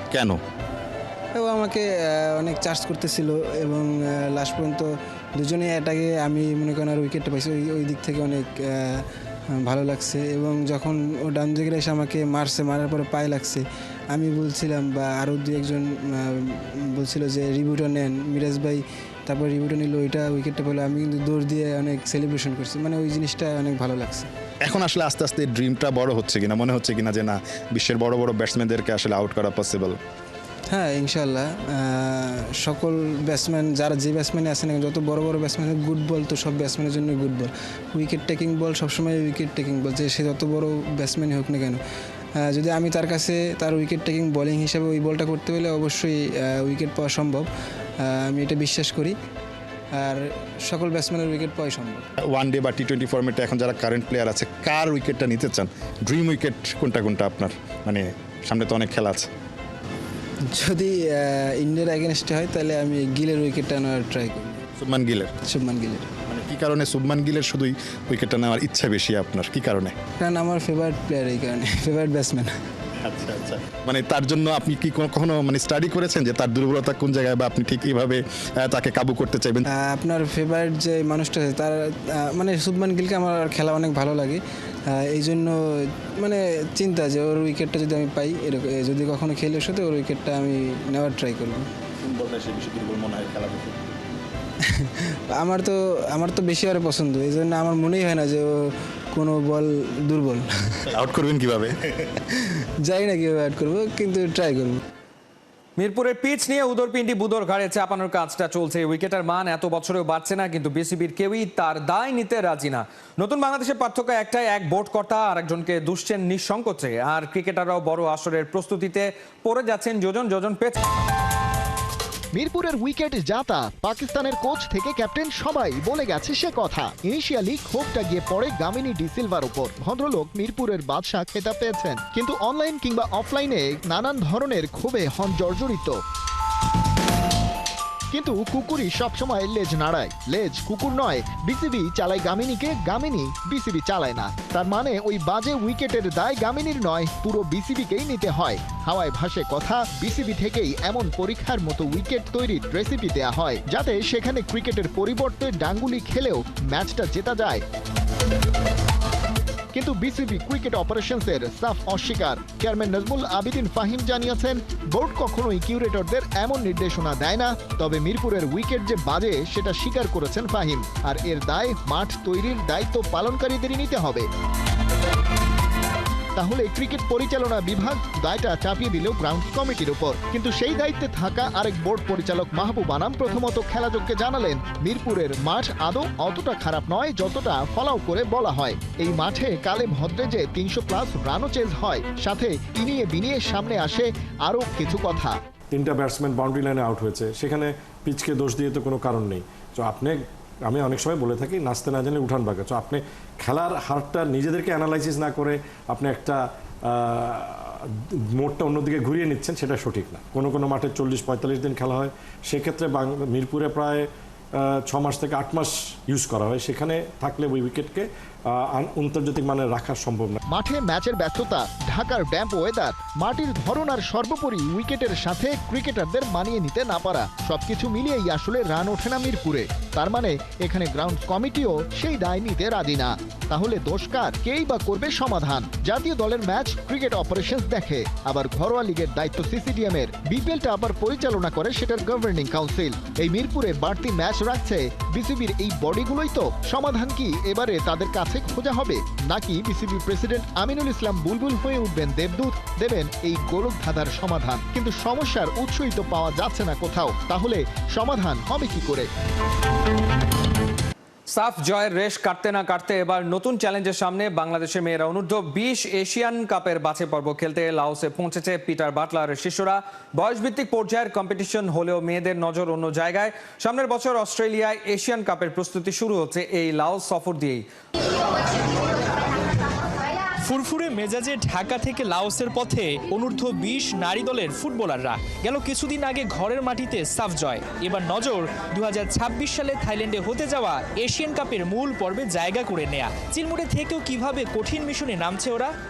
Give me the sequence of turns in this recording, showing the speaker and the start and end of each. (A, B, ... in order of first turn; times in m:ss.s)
0:00.1-0:00.4 A
0:01.4-0:09.0 B
0:09.6-0:24.3 B
0:24.6-0:30.0 A
0:30.7-0:41.8 B
0:42.5-0:47.5 B
0:48.0-0:49.2 B
0:50.0-0:52.1 B
0:52.3-0:59.3 A
1:00.5-1:04.6 B
1:04.8-1:05.3 A
1:05.4-1:06.1 B
1:06.3-1:09.9 A
1:10.2-1:12.5 B
1:13.0-1:19.7 A
1:19.7-1:24.4 B
1:24.9-1:25.6 B
1:26.2-1:31.7 B
1:32.0-1:33.9 A
1:34.8-1:40.5 B
1:40.9-1:41.8 A
1:42.8-1:44.8 B
1:45.8-2:00.8 C
2:02.3-2:16.0 D
2:18.1-2:37.6 D
2:39.7-2:54.3 D
2:56.4-3:15.4 D
3:15.7-3:27.7 E
3:28.4-3:34.1 E
3:34.6-3:40.4 E
3:40.5-4:19.1 D
4:21.3-4:37.6 C
4:40.4-4:55.7 F